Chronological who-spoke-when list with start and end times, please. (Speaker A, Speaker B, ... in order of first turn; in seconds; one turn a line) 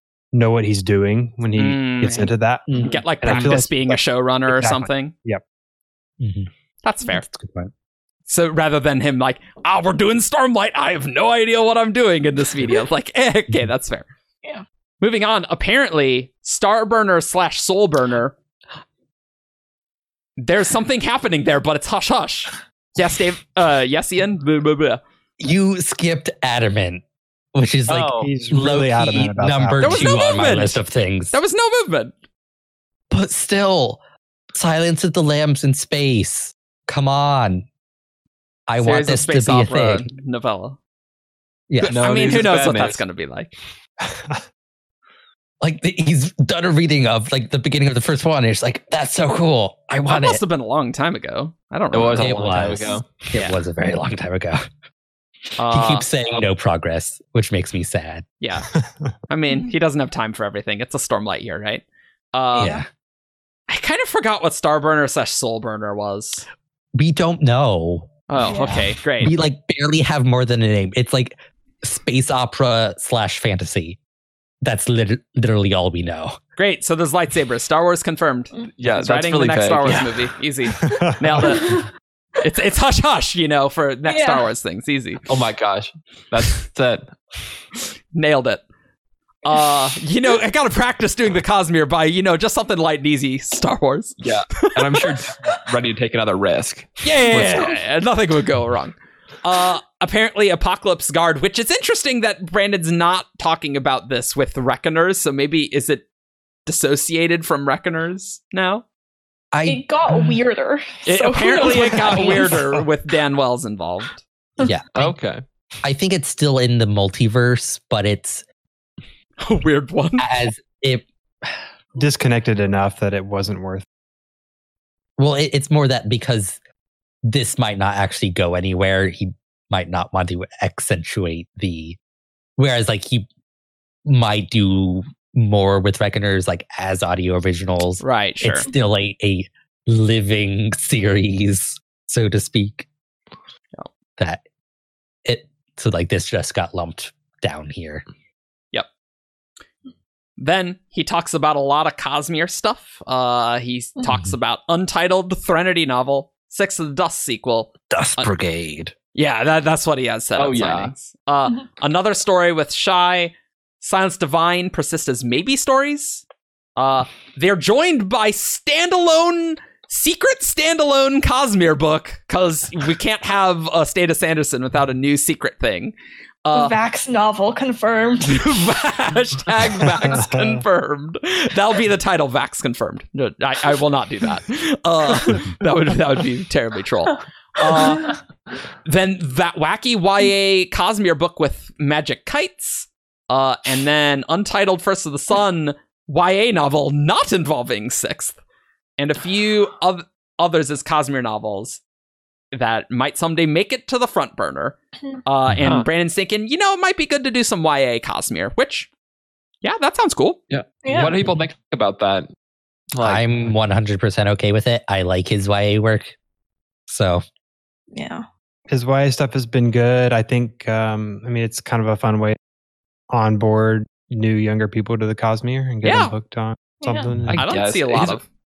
Speaker A: 0.3-5.4
Speaker B: 1.6-5.1
Speaker C: 2.7-3.6
Speaker C: 6.2-6.5
Speaker B: 6.8-7.2
Speaker C: 7.1-7.7
Speaker B: 8.3-14.1
Speaker B: 15.0-18.3
Speaker B: 20.4-25.0
Speaker C: 25.4-27.0
Speaker C: 27.5-31.4
Speaker D: 27.9-28.2
Speaker A: 28.1-30.1
Speaker B: 29.8-32.1
Speaker C: 33.1-34.0
Speaker C: 34.5-37.7
Speaker C: 38.7-40.1
Speaker B: 38.8-40.8
Speaker C: 41.7-42.0
Speaker B: 41.8-43.5
Speaker D: 41.8-43.0
Speaker C: 45.6-50.4
Speaker B: 50.1-52.8
Speaker D: 51.9-53.0
Speaker C: 52.2-54.6
Speaker B: 55.6-56.1
Speaker C: 55.7-58.2
Speaker B: 58.4-58.7
Speaker B: 59.3-62.8
Speaker E: 62.6-62.8
Speaker C: 62.6-62.9
Speaker B: 63.7-66.5
Speaker C: 66.9-74.0
Speaker B: 68.3-69.3
Speaker E: 68.5-68.8
Speaker C: 74.6-76.4
Speaker B: 76.6-81.8
Speaker D: 78.8-80.1
Speaker A: 80.8-81.3
Speaker E: 81.4-81.9
Speaker B: 82.4-85.2
Speaker E: 84.1-84.4
Speaker D: 85.3-87.0
Speaker B: 88.1-88.6
Speaker B: 89.4-95.0
Speaker D: 94.2-97.8
Speaker B: 97.0-106.0
Speaker B: 106.7-108.8
Speaker C: 109.5-110.1
Speaker E: 109.6-112.7
Speaker B: 111.0-114.2
Speaker C: 114.6-115.2
Speaker D: 115.0-115.4
Speaker C: 115.8-118.4
Speaker B: 119.4-120.3
Speaker C: 120.2-121.5
Speaker A: 122.0-123.8
Speaker C: 125.2-126.6
Speaker C: 127.2-132.0
Speaker C: 132.6-133.3
Speaker C: 134.0-142.9
Speaker B: 138.0-138.7
Speaker C: 145.2-148.0
Speaker B: 150.4-158.3
Speaker C: 154.1-154.3
Speaker C: 157.9-158.9
Speaker B: 159.1-166.2
Speaker D: 160.3-160.9
Speaker B: 166.8-175.9
Speaker B: 176.4-176.8
Speaker E: 176.5-178.5
Speaker B: 178.2-188.2
Speaker A: 180.0-180.6
Speaker E: 187.7-188.2
Speaker B: 188.8-198.4
Speaker B: 199.0-201.8
Speaker B: 202.5-208.9
Speaker C: 205.5-205.8
Speaker B: 209.6-210.4
Speaker D: 210.5-212.3
Speaker E: 210.8-211.2
Speaker D: 212.9-213.2
Speaker C: 213.0-216.1
Speaker C: 216.9-217.2
Speaker E: 217.9-218.2
Speaker A: 218.7-222.4
Speaker A: 223.1-227.4
Speaker B: 225.8-226.1
Speaker E: 226.8-227.1
Speaker D: 227.3-228.2
Speaker B: 227.3-228.2